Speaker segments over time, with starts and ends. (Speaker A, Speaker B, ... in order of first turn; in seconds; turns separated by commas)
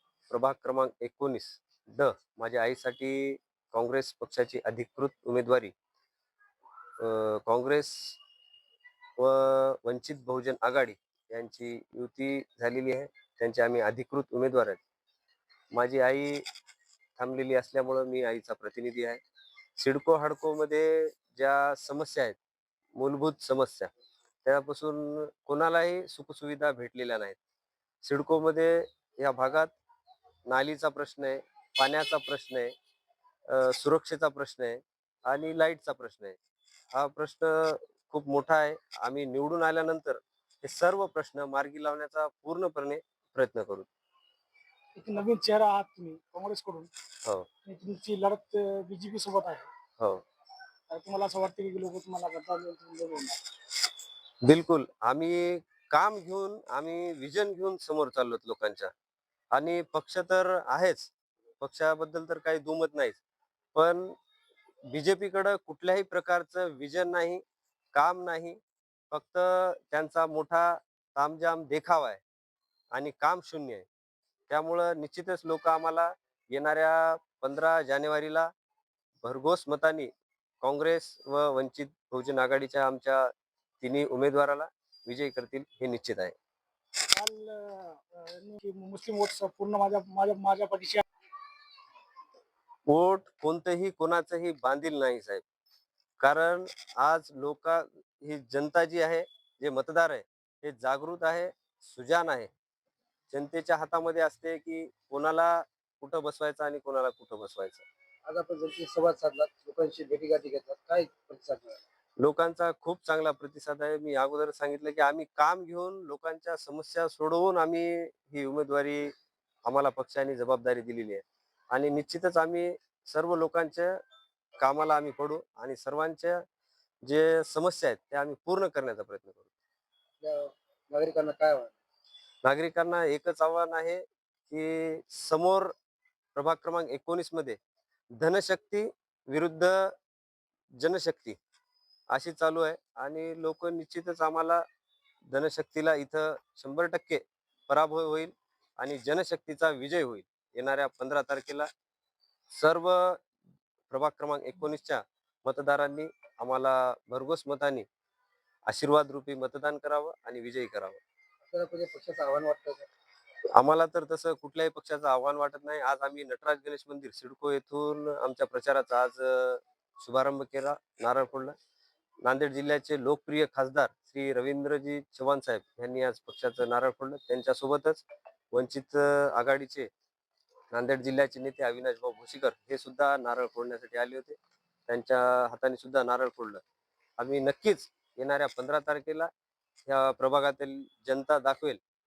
Speaker A: 0.3-5.7, Speaker A: 7.0-8.2, Speaker A: 9.2-14.8, Speaker A: 15.7-16.4, Speaker A: 17.2-19.2, Speaker A: 19.8-22.4, Speaker A: 23.0-23.9, Speaker A: 24.4-27.4, Speaker A: 28.0-29.7, Speaker A: 30.5-32.7, Speaker A: 33.5-36.4, Speaker A: 36.9-43.9, Speaker B: 45.0-46.9, Speaker B: 47.6-49.7, Speaker B: 50.9-53.4, Speaker A: 54.4-58.9, Speaker A: 59.5-63.2, Speaker A: 63.8-64.2, Speaker A: 64.9-67.4, Speaker A: 68.0-68.6, Speaker A: 69.1-72.2, Speaker A: 72.9-73.9, Speaker A: 74.5-78.5, Speaker A: 79.2-80.1, Speaker A: 80.6-83.3, Speaker A: 83.8-86.4, Speaker B: 87.1-91.0, Speaker A: 92.9-95.4, Speaker A: 96.2-102.5, Speaker A: 103.3-107.9, Speaker C: 108.2-111.8, Speaker A: 112.2-119.1, Speaker A: 119.7-123.9, Speaker A: 124.6-126.4, Speaker A: 127.0-129.5, Speaker C: 130.2-131.8, Speaker A: 132.4-135.7, Speaker A: 136.3-137.6, Speaker A: 138.2-139.9, Speaker A: 140.8-141.4, Speaker A: 142.1-144.6, Speaker A: 145.3-151.7, Speaker A: 152.5-153.2, Speaker A: 153.9-157.9, Speaker A: 158.7-161.0, Speaker C: 161.4-162.9, Speaker A: 163.6-171.6, Speaker A: 172.2-179.9, Speaker A: 180.7-184.4, Speaker A: 184.9-186.6, Speaker A: 187.2-189.3, Speaker A: 189.9-191.8